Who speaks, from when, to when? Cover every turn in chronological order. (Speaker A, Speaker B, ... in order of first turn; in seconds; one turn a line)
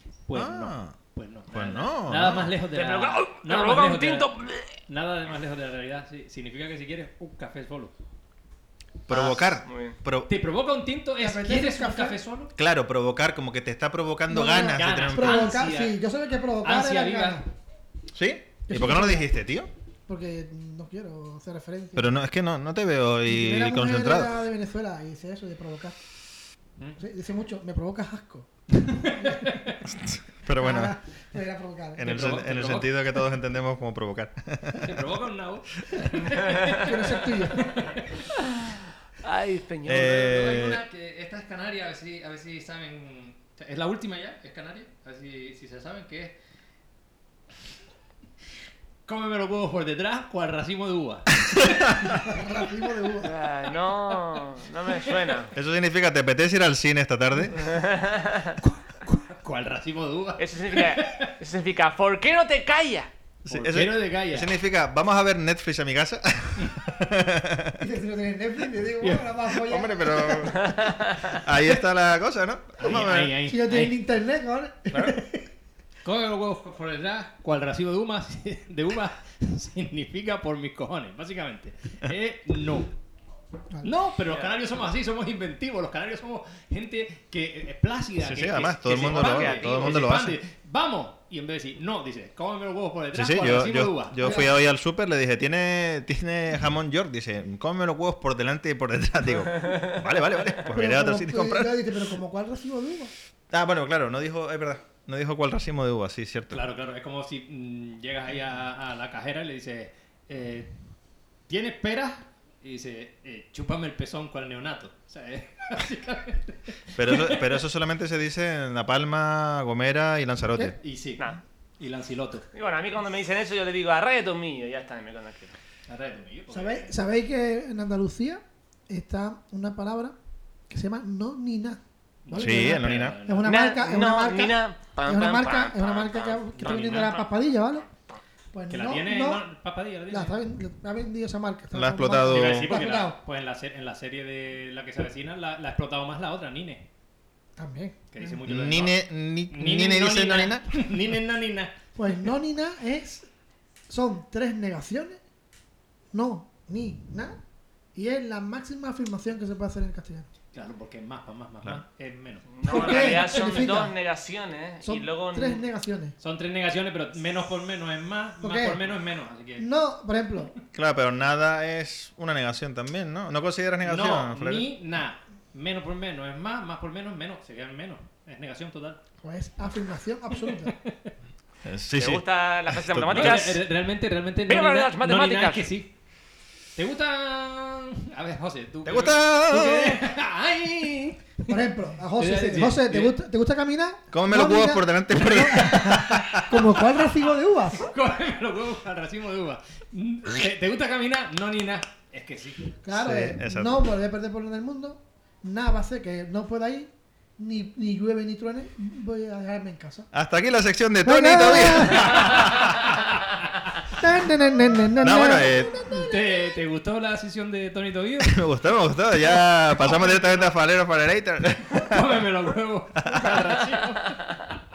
Speaker A: 0.2-4.3
Speaker B: 0.3-0.9
Speaker B: 1.5-2.5
Speaker C: 2.7-4.7
Speaker A: 4.9-7.9
Speaker B: 9.1-10.3
Speaker C: 9.1-9.9
Speaker A: 10.3-12.5
Speaker D: 11.2-12.2
Speaker B: 12.6-15.6
Speaker D: 14.3-17.5
Speaker A: 14.7-16.0
Speaker A: 16.6-17.4
Speaker B: 18.1-19.7
Speaker D: 18.7-19.3
Speaker D: 20.1-22.1
Speaker B: 21.9-24.4
Speaker D: 23.2-25.9
Speaker D: 27.0-29.6
Speaker A: 28.8-29.8
Speaker B: 29.8-30.9
Speaker D: 30.6-32.1
Speaker B: 31.9-35.0
Speaker A: 32.0-33.0
Speaker A: 34.7-38.2
Speaker D: 36.7-37.8
Speaker C: 38.6-40.4
Speaker B: 39.8-40.8
Speaker A: 40.1-46.3
Speaker A: 49.0-51.6
Speaker B: 51.5-52.0
Speaker D: 52.0-53.3
Speaker C: 53.2-55.5
Speaker B: 55.5-57.6
Speaker C: 57.5-58.6
Speaker A: 58.6-61.3
Speaker C: 60.4-63.1
Speaker B: 63.4-67.8
Speaker A: 63.5-64.5
Speaker D: 67.8-70.7
Speaker A: 69.0-69.3
Speaker B: 69.5-73.4
Speaker C: 70.6-71.4
Speaker A: 72.8-74.0
Speaker D: 73.4-75.5
Speaker A: 76.0-82.9
Speaker A: 83.8-94.5
Speaker B: 88.2-90.4
Speaker C: 88.9-90.0
Speaker B: 93.1-102.0
Speaker D: 94.2-94.5
Speaker D: 100.7-103.1
Speaker B: 103.5-106.7
Speaker A: 106.5-110.7
Speaker A: 111.5-117.5
Speaker B: 116.9-120.8
Speaker A: 120.8-121.2
Speaker A: 121.8-122.5
Speaker C: 122.5-125.5
Speaker A: 125.9-127.0
Speaker D: 126.5-130.2
Speaker D: 130.7-137.8
Speaker A: 132.2-133.5
Speaker B: 132.3-133.2
Speaker C: 133.4-137.3
Speaker A: 136.6-137.1
Speaker D: 138.5-139.5
Speaker A: 138.7-140.4
Speaker D: 140.1-143.2
Speaker B: 141.7-142.8
Speaker A: 142.2-146.8
Speaker D: 147.6-148.4
Speaker A: 148.1-151.7
Speaker B: 148.4-150.9
Speaker D: 151.9-153.3
Speaker D: 153.9-155.2
Speaker D: 156.1-157.4
Speaker D: 157.9-160.3
Speaker A: 160.5-163.6
Speaker C: 162.5-165.6
Speaker D: 162.7-163.9
Speaker D: 164.8-166.2
Speaker A: 166.2-169.7
Speaker D: 168.4-168.8
Speaker D: 169.6-170.5
Speaker B: 170.7-174.7
Speaker A: 173.8-179.0
Speaker D: 179.2-180.7
Speaker A: 180.4-181.1
Speaker B: 181.6-183.5
Speaker C: 181.9-183.6
Speaker A: 183.1-185.9
Speaker C: 184.5-185.7
Speaker A: 186.8-191.5
Speaker B: 188.8-190.1
Speaker D: 191.5-197.8
Speaker A: 192.2-193.2
Speaker B: 194.1-196.7
Speaker A: 197.8-202.8
Speaker D: 202.8-210.1
Speaker B: 202.9-203.9
Speaker B: 210.1-212.7
Speaker D: 211.0-212.4
Speaker A: 212.1-213.0
Speaker D: 214.0-216.6
Speaker B: 215.0-215.8
Speaker A: 215.9-218.4
Speaker B: 218.2-222.2
Speaker A: 219.8-220.3
Speaker A: 221.8-224.4
Speaker B: 223.0-223.6